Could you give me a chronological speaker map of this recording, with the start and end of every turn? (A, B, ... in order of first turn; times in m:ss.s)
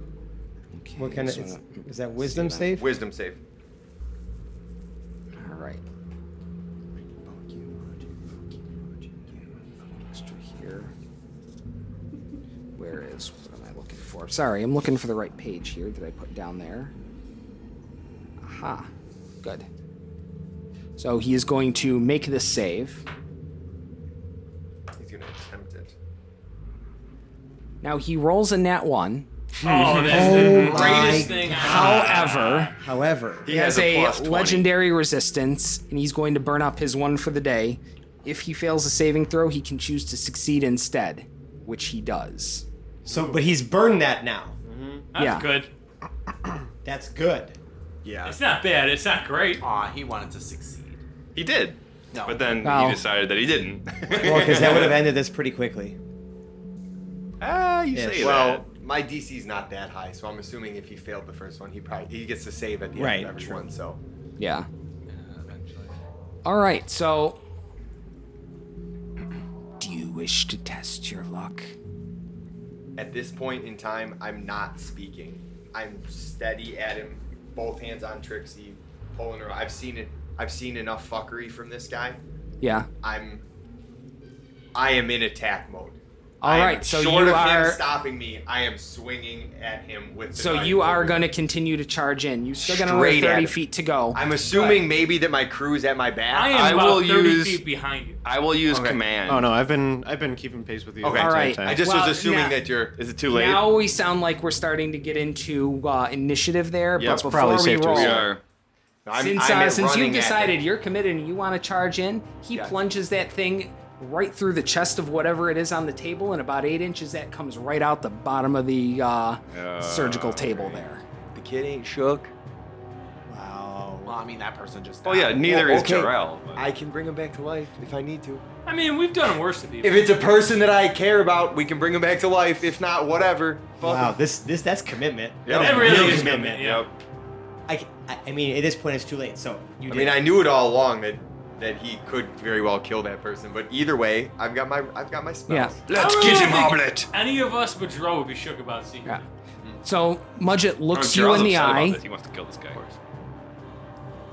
0:00.7-0:02.7 A
0:01.0-0:02.9 B
0:02.7-0:03.4 C
0:05.4-0:05.8 A
0:07.3-0:07.6 A
0:09.2-0:10.9 A
0:12.8-0:16.9 A
0:18.4-0:18.9 A
0:21.0-0:23.0 A
0:25.0-0:25.9 C
0:27.8-0:29.3 A
0:29.6-0:32.7 D
0:29.7-0:30.0 C
0:30.0-0:33.5 B
0:30.5-0:32.7 A
0:33.4-0:34.6 E
0:33.5-0:42.6 A
0:43.1-0:44.6 B
0:45.1-0:45.7 D
0:45.2-0:45.6 A
0:46.8-0:47.6 B
0:48.0-0:48.3 C
0:48.2-0:49.6 D
0:49.6-0:51.0 F
0:51.3-0:55.0 E
0:52.1-0:52.5 F
0:52.6-0:53.0 A
0:54.2-0:56.0 B
0:54.2-0:54.9 C
0:57.4-0:58.7 E
0:57.9-0:58.4 B
0:58.2-1:04.0 C
1:03.0-1:03.7 B
1:04.4-1:04.7 A
1:05.1-1:05.9 F
1:06.4-1:07.4 A
1:09.8-1:11.7 A
1:13.0-1:22.2 C
1:22.6-1:22.9 A
1:23.0-1:23.4 C
1:24.7-1:31.3 C
1:26.4-1:27.8 A
1:30.3-1:34.8 A
1:32.6-1:33.5 C
1:34.1-1:36.9 C
1:36.3-1:38.2 D
1:36.5-1:37.6 E
1:38.2-1:39.5 E
1:38.7-1:39.0 C
1:39.2-1:41.8 G
1:41.0-1:43.6 C
1:41.2-1:42.6 A
1:43.3-1:48.2 A
1:47.0-1:47.5 C
1:47.0-1:48.3 G
1:47.9-1:48.4 E
1:49.0-1:50.6 C
1:49.2-2:01.0 A
1:59.5-2:00.9 E
2:01.3-2:02.3 C
2:03.3-2:04.1 B
2:04.0-2:05.5 F
2:05.0-2:06.7 E
2:05.5-2:06.1 B
2:05.5-2:08.4 C
2:08.6-2:10.1 D
2:09.8-2:14.0 C
2:13.8-2:16.6 B
2:13.8-2:14.1 E
2:15.4-2:16.9 E
2:15.5-2:16.3 C
2:15.6-2:16.9 D
2:17.7-2:20.2 B
2:19.9-2:25.8 C
2:25.5-2:25.7 A
2:25.9-2:27.1 E
2:25.9-2:29.3 D
2:29.8-2:32.0 A
2:30.9-2:33.0 E